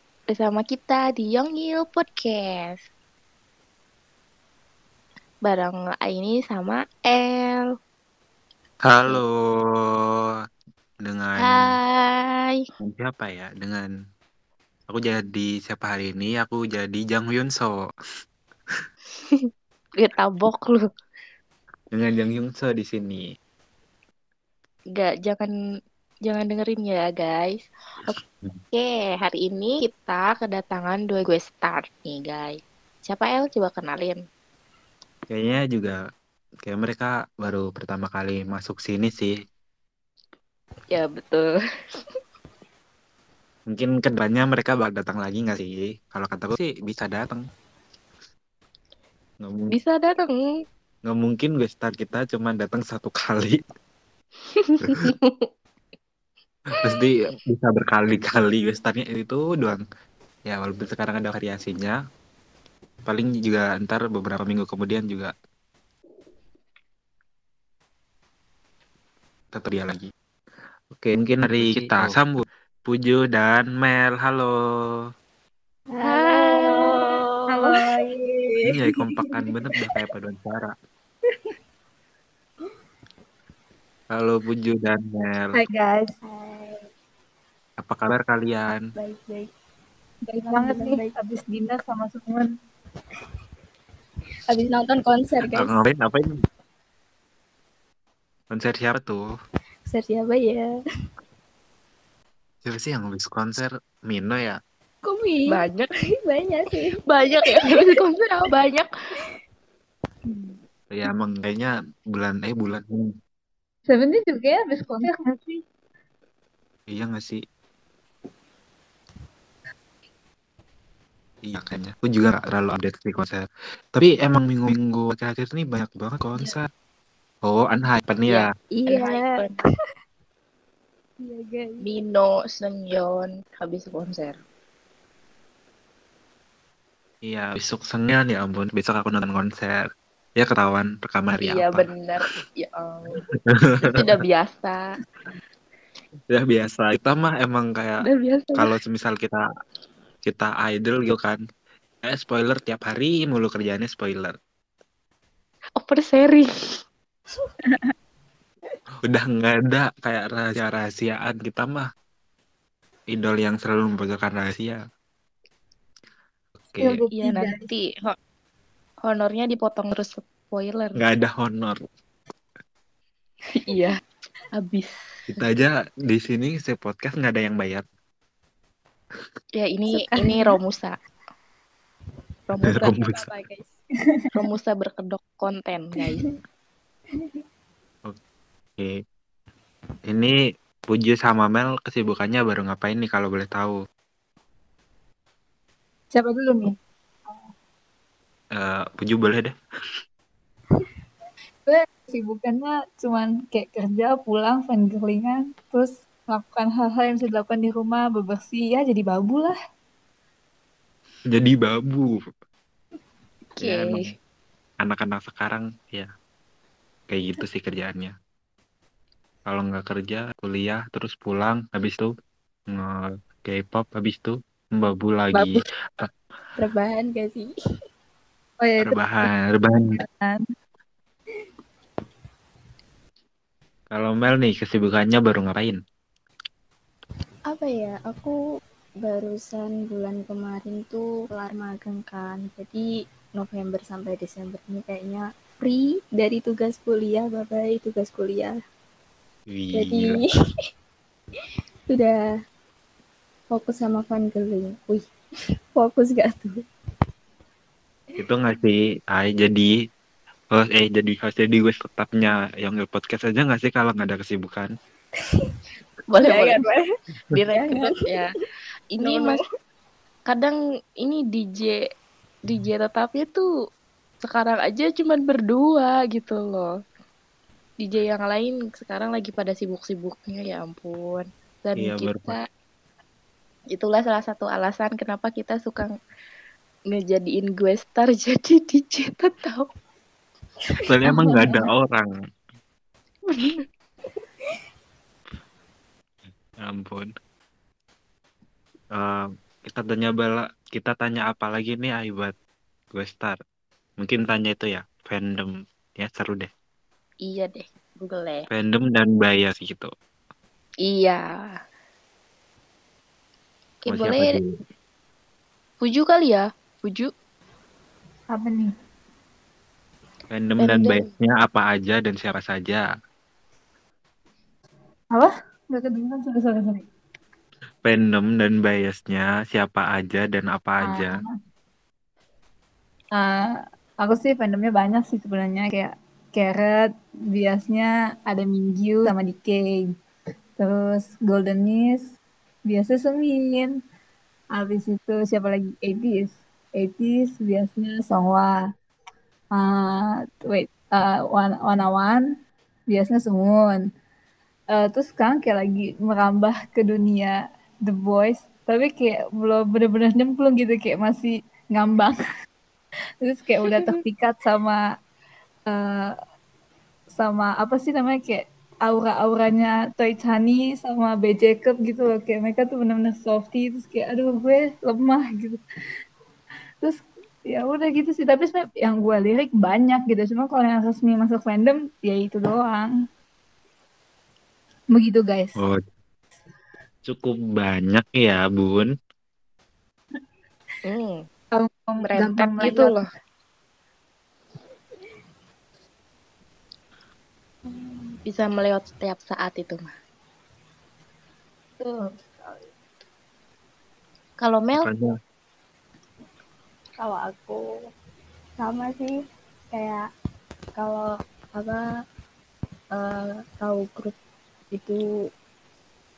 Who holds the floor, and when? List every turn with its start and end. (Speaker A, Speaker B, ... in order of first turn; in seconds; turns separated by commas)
Speaker A: 0.3-2.8, Speaker A: 5.5-7.7, Speaker B: 8.8-10.3, Speaker B: 11.0-11.7, Speaker A: 11.4-12.6, Speaker B: 12.8-13.9, Speaker B: 14.9-17.8, Speaker A: 19.3-20.8, Speaker B: 21.9-23.2, Speaker A: 24.9-25.5, Speaker A: 26.3-28.1, Speaker A: 28.7-34.2, Speaker B: 35.3-36.0, Speaker B: 36.7-39.3, Speaker A: 40.9-41.5, Speaker B: 43.7-47.4, Speaker B: 49.4-49.7, Speaker A: 49.7-50.5, Speaker B: 51.1-53.6, Speaker A: 54.5-55.5, Speaker B: 56.8-59.8, Speaker B: 60.5-62.0, Speaker B: 63.0-65.3, Speaker B: 69.5-70.1, Speaker B: 71.0-74.5, Speaker C: 76.0-76.8, Speaker A: 76.0-77.7, Speaker C: 77.5-79.4, Speaker B: 78.6-80.7, Speaker B: 84.1-85.6, Speaker C: 85.5-86.1, Speaker D: 86.2-86.9, Speaker B: 87.8-88.8, Speaker D: 88.9-89.5, Speaker C: 90.3-92.5, Speaker D: 90.4-91.1, Speaker D: 94.4-95.8, Speaker B: 95.5-96.3, Speaker B: 98.5-99.2, Speaker D: 99.9-100.7, Speaker B: 102.6-104.6, Speaker D: 105.0-105.6, Speaker A: 105.5-105.9, Speaker D: 106.2-108.0, Speaker A: 107.0-108.9, Speaker B: 110.9-113.1, Speaker C: 113.9-115.6, Speaker B: 116.9-117.4, Speaker B: 121.5-123.5, Speaker B: 124.0-126.6, Speaker B: 127.5-128.4, Speaker A: 128.3-129.6, Speaker D: 128.8-129.4, Speaker D: 131.2-131.8, Speaker A: 131.8-134.4, Speaker B: 137.3-139.8, Speaker B: 140.4-141.9, Speaker A: 141.4-143.2, Speaker A: 143.8-144.8, Speaker B: 146.3-149.4, Speaker A: 148.1-148.8, Speaker B: 150.2-151.4, Speaker B: 152.1-154.4, Speaker A: 155.8-156.5, Speaker B: 159.0-161.9, Speaker B: 163.1-164.8, Speaker B: 166.7-167.0, Speaker C: 166.8-167.7, Speaker A: 167.1-168.2, Speaker A: 169.1-171.0, Speaker B: 171.0-171.8, Speaker A: 173.6-174.0, Speaker A: 174.6-174.9, Speaker B: 175.3-177.8, Speaker A: 179.6-180.9, Speaker D: 179.9-180.6, Speaker A: 182.5-183.2, Speaker B: 182.7-183.2, Speaker D: 183.1-183.7, Speaker A: 184.3-186.2, Speaker B: 190.1-190.3, Speaker B: 190.9-193.8, Speaker C: 196.1-196.8, Speaker B: 198.6-199.6, Speaker C: 201.7-209.6, Speaker B: 211.3-212.2, Speaker A: 213.6-214.1, Speaker B: 213.6-214.1, Speaker B: 214.8-216.1, Speaker B: 217.1-218.1, Speaker B: 219.5-222.1, Speaker B: 222.7-226.1, Speaker C: 225.3-225.6, Speaker D: 226.6-227.5, Speaker C: 228.6-230.4, Speaker B: 228.8-230.0, Speaker B: 233.9-235.8, Speaker D: 237.5-238.3, Speaker D: 239.0-248.6, Speaker B: 249.5-250.2, Speaker D: 249.8-250.2, Speaker D: 251.9-252.2, Speaker D: 253.5-255.0, Speaker D: 255.8-256.5, Speaker B: 258.2-259.7, Speaker B: 260.5-264.7, Speaker A: 266.1-266.6, Speaker D: 266.2-266.8, Speaker A: 267.3-268.3, Speaker D: 267.5-268.0, Speaker A: 268.9-269.4, Speaker D: 269.0-269.4, Speaker A: 270.3-271.8, Speaker A: 272.4-273.4, Speaker A: 274.2-276.7, Speaker A: 277.8-282.4, Speaker B: 281.8-282.4, Speaker A: 283.7-285.9, Speaker A: 286.9-289.7, Speaker D: 290.7-291.1, Speaker B: 290.8-292.1, Speaker A: 293.3-293.6, Speaker B: 296.6-297.1, Speaker B: 298.9-302.3, Speaker B: 302.9-303.4, Speaker B: 304.0-306.5, Speaker A: 307.2-308.4, Speaker B: 308.5-309.9, Speaker A: 310.8-311.6, Speaker A: 313.8-314.4, Speaker B: 313.9-314.5, Speaker A: 315.8-317.1, Speaker C: 318.3-318.7, Speaker B: 320.3-322.8, Speaker A: 320.6-321.1, Speaker C: 325.1-326.9, Speaker B: 327.8-331.2, Speaker C: 330.8-331.3, Speaker C: 333.1-333.5, Speaker C: 334.0-339.8, Speaker C: 340.6-342.1, Speaker C: 342.7-343.8, Speaker C: 344.5-348.6, Speaker C: 349.5-352.2, Speaker C: 352.9-353.8, Speaker C: 354.7-362.2, Speaker C: 363.2-364.8, Speaker C: 365.7-366.1, Speaker C: 367.1-375.6, Speaker C: 376.8-382.9, Speaker C: 384.9-385.6, Speaker B: 387.1-388.9, Speaker A: 390.9-391.2, Speaker C: 391.5-393.0, Speaker A: 392.0-393.0, Speaker D: 397.7-398.2, Speaker A: 398.3-399.9, Speaker C: 401.8-402.6, Speaker A: 404.4-404.9, Speaker B: 404.8-405.1, Speaker D: 407.0-407.6, Speaker D: 408.6-409.2, Speaker D: 409.7-410.0, Speaker D: 410.8-411.8, Speaker D: 412.9-414.1, Speaker D: 414.7-415.0